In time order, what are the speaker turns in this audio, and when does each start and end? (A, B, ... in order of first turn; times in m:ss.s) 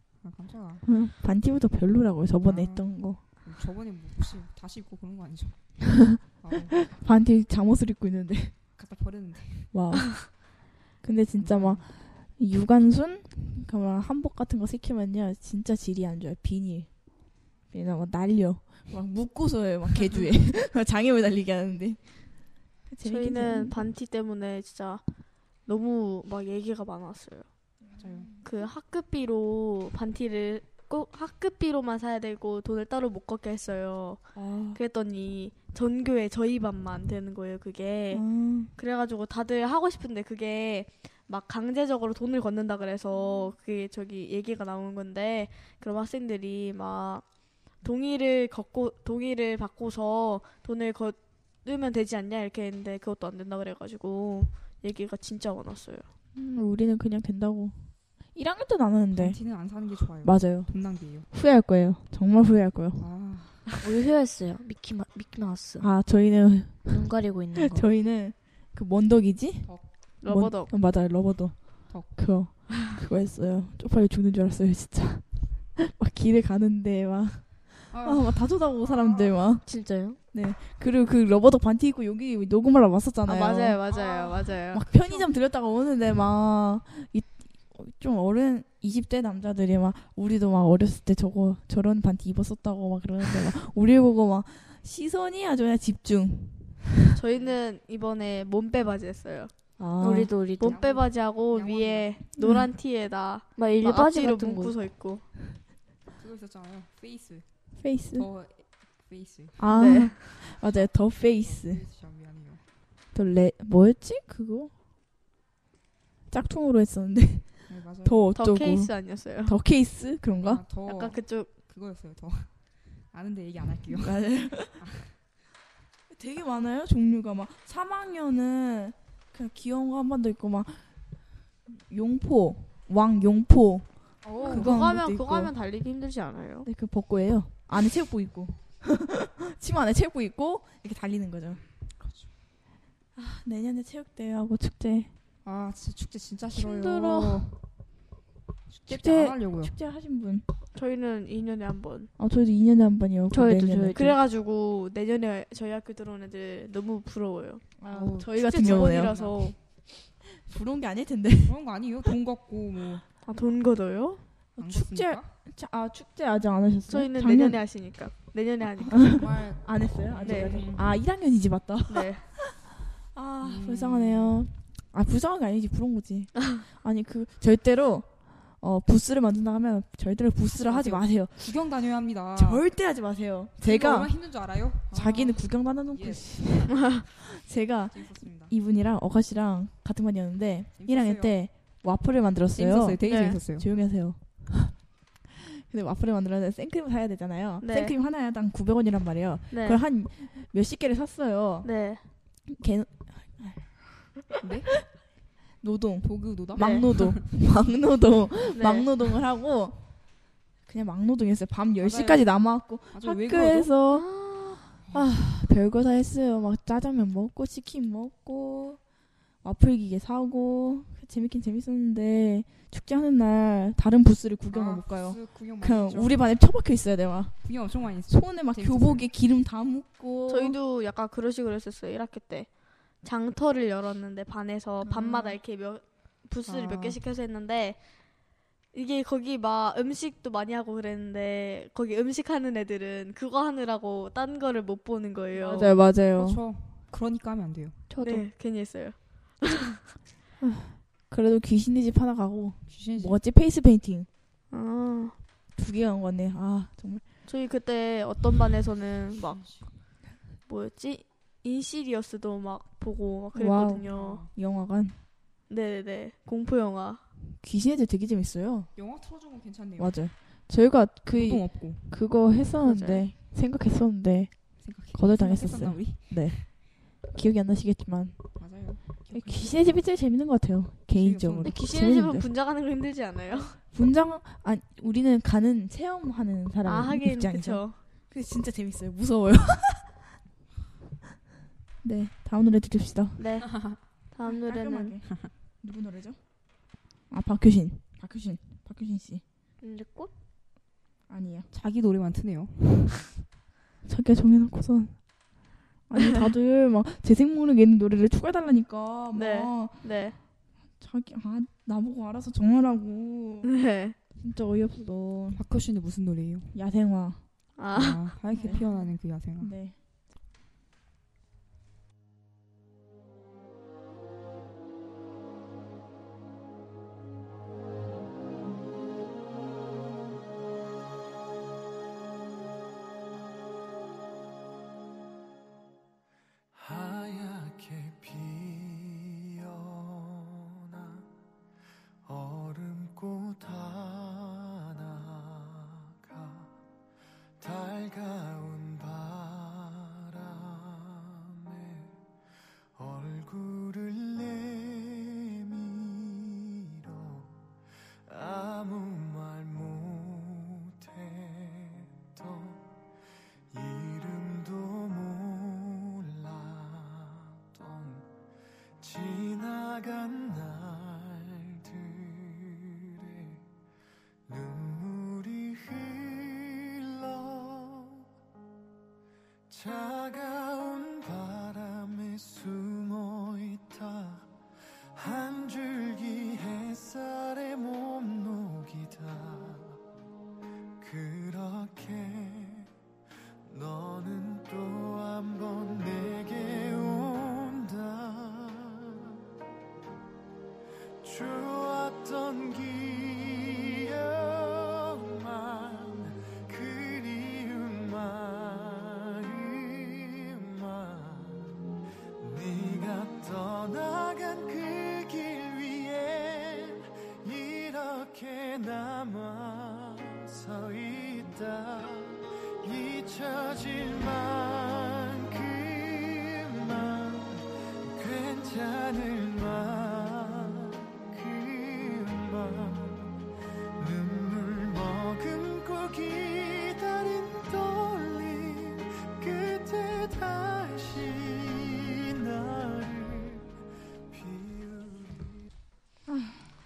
0:00.2-0:00.9 A
0:00.9-0:03.2 B
0:02.4-0:06.9 A
0:06.8-0:08.6 B
0:08.8-0:09.7 A
0:09.7-0:23.9 B
0:11.4-0:11.9 A
0:23.0-0:25.0 C
0:25.6-0:27.5 C
0:27.8-0:28.3 B
0:28.0-0:28.3 A
0:28.4-0:47.3 C
0:34.4-0:34.8 B
0:38.1-0:38.7 B
0:47.8-0:56.1 C
0:56.3-0:59.4 B
0:59.1-1:01.3 A
1:00.2-1:03.0 B
1:03.0-1:03.6 A
1:03.8-1:05.9 D
1:05.8-1:07.0 B
1:06.9-1:07.9 D
1:07.5-1:19.7 B
1:10.2-1:10.7 C
1:17.9-1:19.4 A
1:19.7-1:20.2 D
1:20.3-1:23.8 B
1:23.3-1:24.8 C
1:23.9-1:25.3 A
1:24.7-1:37.0 B
1:37.2-1:39.5 C
1:37.3-1:37.6 A
1:39.8-1:40.3 B
1:40.0-1:40.8 D
1:40.6-1:45.2 C
1:40.6-1:42.2 A
1:42.4-1:42.7 B
1:43.6-1:44.8 D
1:46.2-1:47.5 A
1:47.8-1:48.3 B
1:48.1-1:49.6 A
1:49.6-1:51.8 B
1:49.7-1:50.3 C
1:50.6-1:52.6 A
1:53.1-1:54.7 B
1:56.3-2:00.6 B
1:57.7-1:58.2 A
1:58.4-1:59.6 C
2:00.4-2:05.1 A
2:00.9-2:01.5 C
2:03.9-2:04.8 B
2:06.1-2:11.0 B
2:11.6-2:15.5 B
2:14.2-2:14.9 A
2:14.4-2:16.7 C
2:16.6-2:21.6 B
2:22.0-2:22.3 A
2:23.2-2:25.1 B
2:25.4-2:27.5 A
2:26.6-2:27.4 B
2:28.7-2:29.7 A
2:28.9-2:30.5 B
2:30.7-2:32.1 C
2:32.2-2:34.2 B
2:33.3-2:34.0 D
2:34.0-2:37.7 C
2:37.8-2:39.2 B
2:37.9-2:39.4 A
2:38.4-2:39.6 C
2:40.2-2:41.6 B
2:41.4-2:43.0 A
2:43.3-2:44.2 C
2:44.6-2:47.6 B
2:44.6-2:45.3 A
2:46.9-2:49.1 C
2:48.9-3:01.5 B
2:48.9-2:50.9 A
2:50.2-2:50.6 C
2:51.9-2:52.2 C
2:53.4-2:54.5 A
3:00.6-3:02.7 A
3:02.4-3:04.3 B
3:03.6-3:06.9 A
3:04.9-3:14.8 B
3:07.9-3:08.5 A
3:10.8-3:11.3 A
3:12.5-3:13.7 A
3:13.1-3:13.4 C
3:15.4-3:21.7 B
3:17.6-3:17.9 C
3:19.5-3:19.8 C
3:21.6-3:22.0 C
3:22.5-3:24.2 B
3:24.4-3:24.8 A
3:25.6-3:29.8 B
3:26.0-3:27.2 A
3:26.6-3:26.8 C
3:28.6-3:28.9 C
3:30.6-3:34.2 B
3:31.8-3:33.7 A
3:33.9-3:34.6 D
3:34.9-3:38.8 B
3:39.4-3:47.5 B
3:44.5-3:46.2 A
3:47.4-3:49.1 A
3:48.1-3:50.6 B
3:50.3-3:57.8 C
3:54.8-3:55.4 B
3:56.4-3:57.0 A
3:58.7-4:05.7 C
4:05.3-4:06.4 B
4:05.9-4:07.8 A
4:07.9-4:08.3 D
4:08.0-4:09.8 C
4:10.4-4:14.1 B
4:12.7-4:13.2 A
4:14.5-4:15.2 C
4:15.6-4:17.0 B
4:17.3-4:19.5 C
4:19.2-4:19.7 A
4:20.5-4:24.2 C
4:23.3-4:25.0 B
4:23.9-4:24.3 A
4:25.5-4:27.0 C
4:27.3-4:28.7 B
4:28.8-4:30.0 A
4:29.8-4:42.3 B
4:31.2-4:31.8 A
4:32.6-4:33.0 C
4:34.6-4:36.4 A
4:38.4-4:39.7 A
4:40.9-4:41.6 A
4:41.4-4:43.6 C
4:43.7-4:50.0 B
4:46.6-4:47.8 C
4:51.8-4:53.6 B
4:53.2-4:55.0 C
4:53.5-4:53.8 A
4:54.2-4:56.2 B
4:57.1-4:59.2 B
4:59.6-5:00.1 D
5:01.1-5:01.5 B
5:01.5-5:03.1 A
5:03.8-5:05.0 B
5:05.9-5:10.0 B
5:09.1-5:10.2 C
5:10.8-5:13.5 B
5:13.4-5:14.0 C
5:14.1-5:15.4 B
5:15.4-5:16.6 A
5:16.5-5:17.2 B
5:17.6-5:18.1 C
5:17.7-5:19.5 A
5:18.3-5:19.8 B
5:36.5-5:41.1 E
5:42.1-5:46.5 E
5:47.4-5:51.9 E
5:52.8-5:57.3 E
5:58.1-6:02.6 E
6:03.5-6:08.1 E
6:08.8-6:13.4 E
6:14.3-6:18.0 E
6:19.5-6:24.3 E
6:25.0-6:29.8 E
6:30.8-6:32.7 E
6:33.5-6:39.2 E
6:41.0-6:51.6 E
6:52.2-7:13.2 E
7:13.8-7:23.5 E
7:24.1-7:25.4 E
7:26.1-7:26.5 B